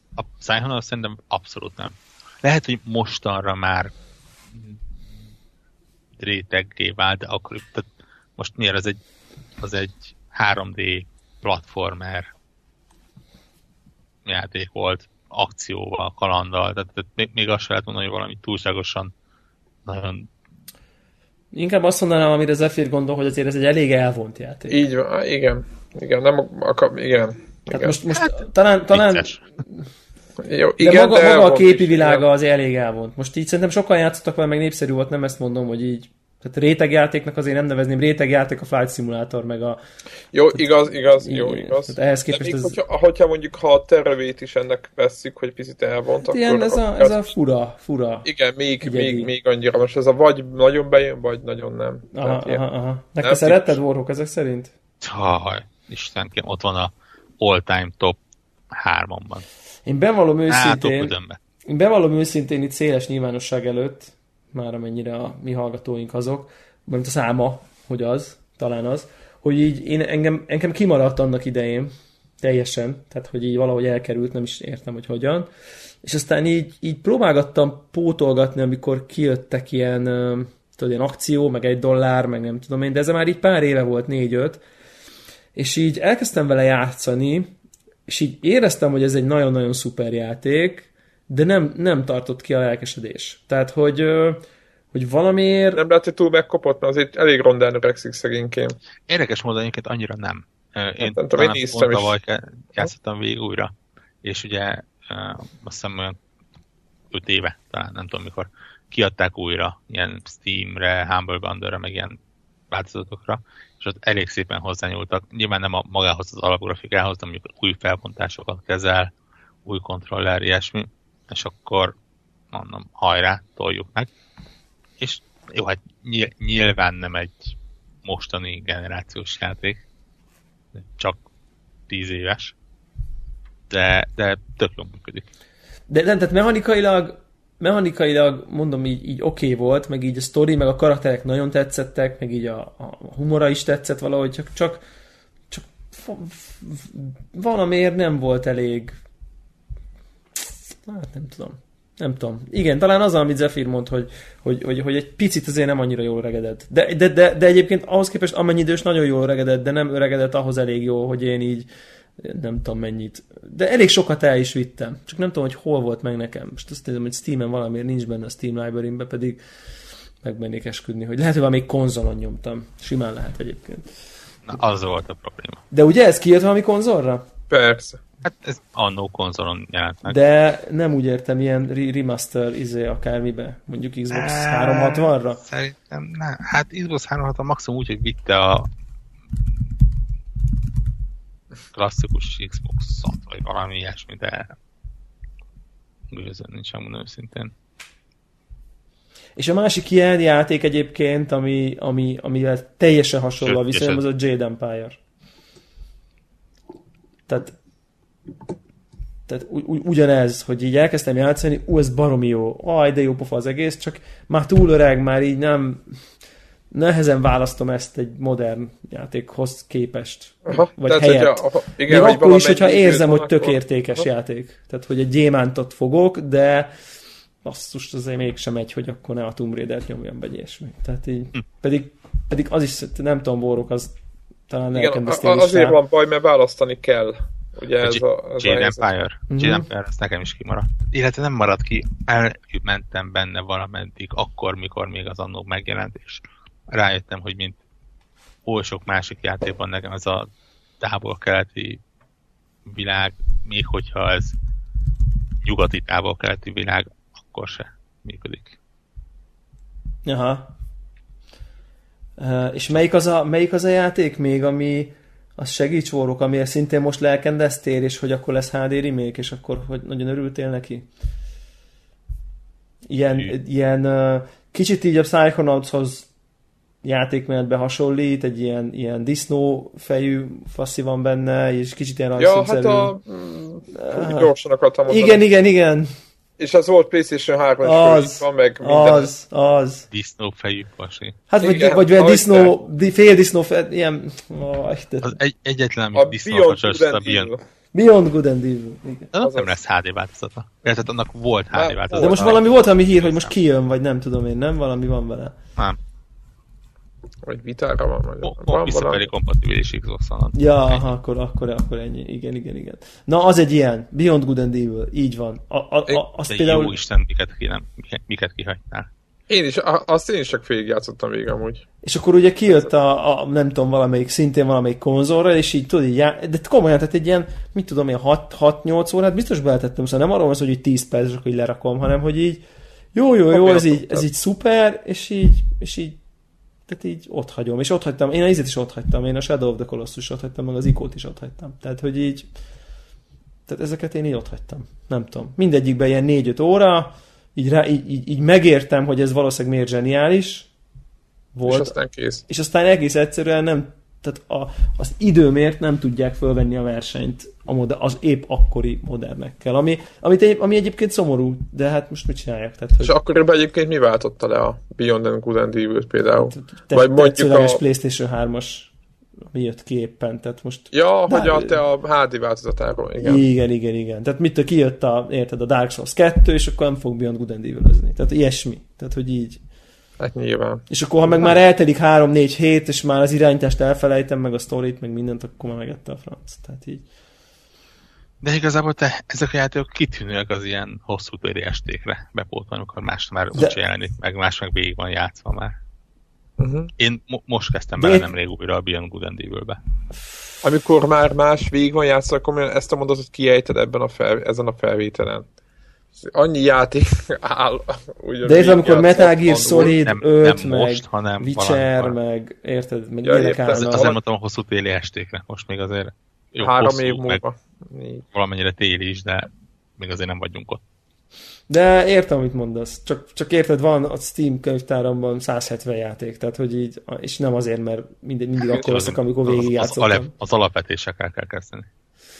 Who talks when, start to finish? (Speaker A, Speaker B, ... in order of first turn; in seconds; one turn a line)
Speaker A: 0.2-3.9
Speaker A: 6.2-9.0
Speaker A: 9.6-12.3
Speaker A: 14.2-19.1
Speaker A: 19.9-20.3
Speaker B: 21.5-24.8
Speaker C: 24.7-28.0
Speaker B: 27.7-29.8
Speaker A: 28.1-29.4
Speaker C: 30.4-32.2
Speaker B: 30.8-39.8
Speaker C: 40.3-47.3
Speaker B: 41.2-42.8
Speaker B: 46.3-48.2
Speaker C: 48.2-52.6
Speaker B: 48.8-49.3
Speaker B: 52.1-54.7
Speaker C: 53.2-53.8
Speaker A: 55.0-58.2
Speaker A: 58.7-59.4
Speaker B: 59.9-61.1
Speaker A: 60.5-61.4
Speaker B: 61.7-75.5
Speaker B: 76.0-84.6
Speaker B: 85.5-87.5
Speaker B: 88.1-95.8
Speaker C: 95.7-98.8
Speaker A: 99.1-103.7
Speaker C: 101.0-102.2
Speaker A: 104.2-106.2
Speaker A: 107.1-112.2
Speaker A: 112.7-119.1
Speaker A: 119.7-121.9
Speaker A: 122.5-124.1
Speaker A: 125.0-129.8
Speaker A: 130.9-131.2
Speaker A: 131.9-132.5
Speaker A: 133.7-135.3
Speaker B: 135.9-144.8
Speaker B: 145.5-149.0
Speaker B: 150.8-169.4
Speaker B: 170.2-173.8
Speaker A: 174.4-175.6
Speaker B: 175.7-177.3
Speaker C: 177.5-178.0
Speaker A: 178.2-180.2
Speaker B: 180.0-185.4
Speaker A: 184.1-188.7
Speaker A: 191.7-194.5
Speaker A: 196.1-197.5
Speaker B: 199.4-205.0
Speaker A: 203.4-204.0
Speaker B: 207.3-207.6
Speaker B: 209.3-216.0
Speaker B: 216.7-226.7
Speaker C: 220.5-223.6
Speaker B: 227.4-233.9
Speaker B: 234.5-235.8
Speaker C: 234.7-238.9
Speaker A: 237.8-247.6
Speaker B: 239.3-239.7
Speaker A: 248.4-250.3
Speaker A: 250.8-251.8
Speaker A: 252.7-254.3
Speaker A: 255.4-258.5
Speaker B: 260.0-260.5
Speaker B: 262.2-270.9
Speaker B: 272.9-276.1
Speaker B: 276.8-282.9
Speaker C: 282.2-285.2
Speaker B: 283.7-284.3
Speaker B: 284.9-285.9
Speaker C: 286.4-289.1
Speaker B: 287.6-289.9
Speaker A: 289.9-291.2
Speaker B: 291.3-295.2
Speaker C: 291.4-292.5
Speaker A: 295.0-297.3
Speaker C: 295.9-297.4
Speaker B: 297.7-299.1
Speaker A: 299.1-303.3
Speaker C: 299.2-299.5
Speaker C: 301.5-302.4
Speaker B: 302.0-305.4
Speaker C: 307.2-309.1
Speaker A: 308.2-310.8
Speaker B: 310.3-316.7
Speaker A: 316.3-318.9
Speaker C: 319.3-321.6
Speaker B: 321.8-332.4
Speaker B: 332.9-336.0
Speaker C: 333.3-334.0
Speaker B: 336.7-342.3
Speaker B: 343.5-350.5
Speaker B: 351.3-351.7
Speaker C: 351.5-352.2
Speaker B: 352.3-362.9
Speaker C: 362.8-367.6
Speaker B: 366.2-368.7
Speaker B: 369.3-371.5
Speaker C: 370.7-373.2
Speaker B: 373.0-379.4
Speaker C: 380.0-380.6
Speaker B: 380.7-386.8
Speaker A: 388.2-395.6
Speaker C: 396.4-396.7
Speaker A: 396.8-399.6
Speaker B: 397.8-398.1
Speaker C: 400.4-405.2
Speaker C: 406.0-409.8
Speaker B: 408.2-413.9
Speaker A: 409.5-411.9
Speaker C: 413.0-414.0
Speaker A: 413.5-417.2
Speaker C: 416.4-418.0
Speaker A: 418.1-420.6
Speaker B: 421.5-430.1
Speaker A: 428.5-431.7